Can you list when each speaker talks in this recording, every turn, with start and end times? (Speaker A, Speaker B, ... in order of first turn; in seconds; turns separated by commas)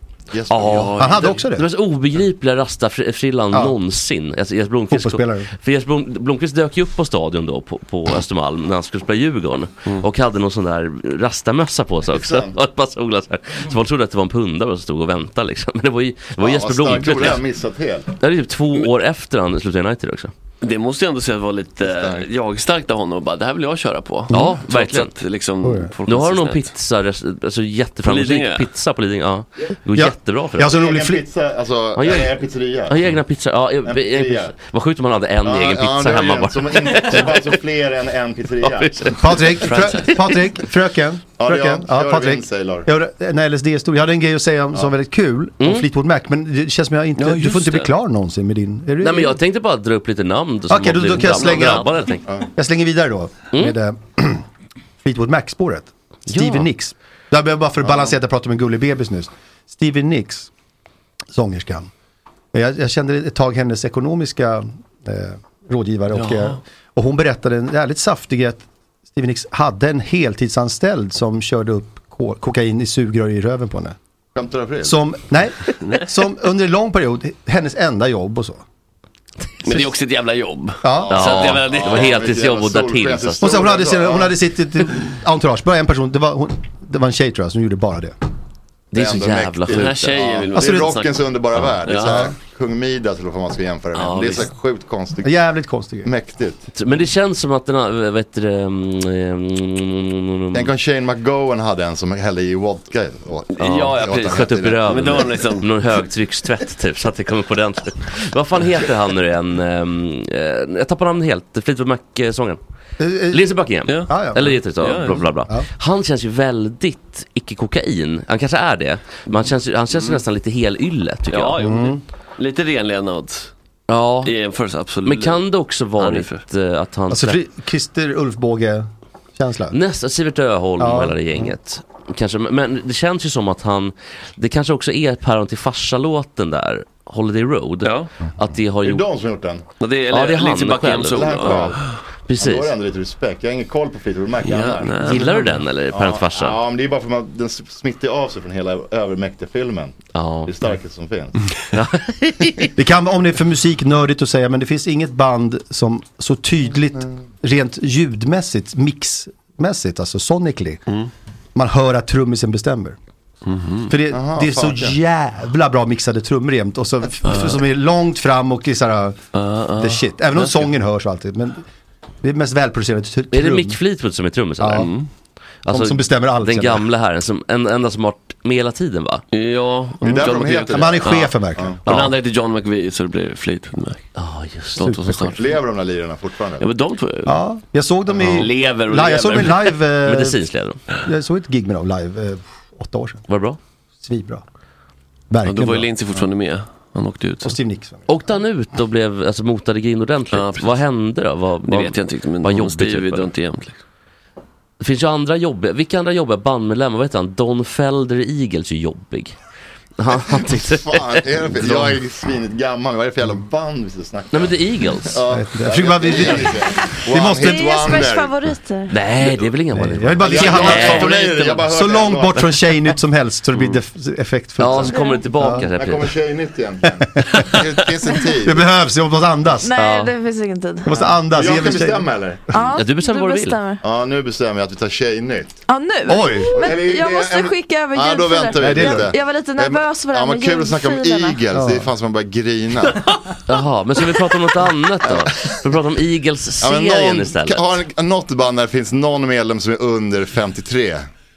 Speaker A: 0.3-1.0, Speaker B: 0.5-17.4, Speaker C: 0.6-1.4, Speaker D: 1.0-1.7, Speaker D: 4.9-5.5, Speaker A: 12.1-12.6, Speaker A: 16.4-18.1, Speaker B: 18.2-20.3, Speaker C: 20.6-26.7, Speaker A: 21.8-22.3, Speaker D: 24.3-24.6, Speaker B: 24.3-25.1, Speaker D: 25.6-25.9, Speaker B: 26.1-30.7, Speaker C: 28.0-28.7, Speaker D: 29.9-31.2, Speaker A: 30.7-33.0, Speaker B: 31.9-32.3, Speaker B: 32.9-37.6, Speaker A: 33.9-34.5, Speaker A: 35.4-39.1, Speaker B: 38.6-39.6, Speaker D: 39.2-49.4, Speaker C: 39.6-40.2, Speaker A: 41.4-42.9, Speaker B: 45.6-45.9, Speaker C: 47.2-47.9, Speaker B: 49.0-52.2, Speaker D: 50.7-51.9, Speaker C: 51.5-51.8, Speaker D: 52.5-54.4, Speaker D: 55.0-60.5, Speaker B: 56.3-56.7, Speaker D: 61.3-61.9, Speaker D: 62.5-74.0, Speaker C: 66.2-66.6, Speaker A: 74.3-75.0, Speaker D: 74.8-78.6, Speaker C: 79.6-82.2, Speaker D: 80.8-81.3, Speaker A: 81.0-84.3, Speaker B: 81.1-83.6, Speaker D: 83.4-88.2, Speaker B: 88.9-90.2, Speaker A: 88.9-95.3, Speaker C: 89.7-92.3, Speaker D: 90.5-91.0, Speaker D: 92.1-92.3, Speaker C: 93.9-94.5, Speaker D: 95.2-96.1, Speaker A: 96.0-96.6, Speaker B: 96.8-100.7, Speaker A: 100.5-105.2, Speaker C: 103.5-105.7, Speaker B: 103.6-112.6, Speaker D: 113.0-113.5, Speaker B: 113.3-121.6, Speaker C: 113.9-114.2, Speaker D: 114.1-114.5, Speaker C: 114.8-115.3, Speaker C: 119.3-120.2, Speaker C: 121.3-123.5, Speaker D: 121.6-122.0, Speaker B: 123.9-124.3, Speaker C: 124.2-125.4, Speaker B: 125.0-127.4, Speaker C: 126.0-126.4, Speaker D: 127.1-129.8, Speaker B: 129.7-139.1, Speaker D: 130.8-131.5, Speaker C: 137.8-138.1, Speaker A: 138.8-139.6, Speaker C: 139.8-142.0, Speaker B: 140.1-142.7, Speaker A: 141.1-141.9, Speaker A: 142.4-145.3, Speaker C: 144.4-145.6, Speaker B: 145.0-146.6, Speaker A: 145.9-151.4, Speaker B: 150.1-150.5, Speaker B: 151.7-152.7, Speaker D: 152.8-160.8, Speaker D: 161.6-163.0, Speaker C: 163.4-163.9, Speaker D: 163.9-169.2, Speaker A: 164.1-165.0, Speaker C: 167.3-167.6, Speaker C: 169.3-170.6, Speaker D: 169.8-171.6, Speaker D: 172.2-173.8, Speaker B: 173.3-174.9, Speaker D: 174.6-174.9, Speaker C: 174.7-175.1, Speaker B: 175.7-179.2, Speaker D: 175.7-176.9, Speaker C: 179.3-184.1, Speaker D: 180.0-181.7, Speaker A: 180.0-181.8, Speaker B: 181.9-182.1, Speaker B: 184.2-184.9, Speaker C: 184.8-185.4, Speaker D: 184.8-185.4, Speaker A: 185.4-186.7, Speaker C: 186.6-187.4, Speaker D: 187.3-190.4, Speaker C: 188.2-189.8, Speaker B: 190.0-190.8, Speaker D: 191.0-193.2, Speaker B: 193.3-193.6, Speaker D: 194.0-194.4, Speaker D: 195.3-195.9, Speaker C: 195.4-197.6, Speaker D: 197.4-198.2, Speaker B: 198.1-203.3, Speaker C: 200.3-200.8, Speaker C: 201.6-203.8, Speaker B: 204.8-209.4, Speaker B: 210.0-212.0, Speaker A: 210.5-218.4, Speaker B: 214.3-215.2, Speaker D: 215.3-218.0, Speaker E: 217.3-218.9, Speaker B: 218.9-221.2, Speaker D: 219.8-221.1, Speaker A: 220.2-222.6, Speaker C: 220.6-221.6, Speaker D: 221.7-225.7, Speaker B: 224.6-226.2, Speaker E: 224.8-225.3, Speaker A: 225.8-228.6, Speaker D: 227.0-227.5, Speaker D: 228.4-229.7, Speaker E: 229.6-230.9, Speaker B: 229.8-230.1, Speaker D: 230.8-232.1, Speaker A: 230.9-232.5, Speaker E: 232.5-233.8, Speaker B: 232.8-233.6, Speaker A: 233.8-235.6, Speaker E: 235.7-241.4, Speaker D: 236.1-236.7, Speaker A: 236.5-243.1, Speaker D: 238.6-239.1, Speaker D: 241.5-241.9, Speaker B: 243.5-247.7, Speaker A: 246.6-251.1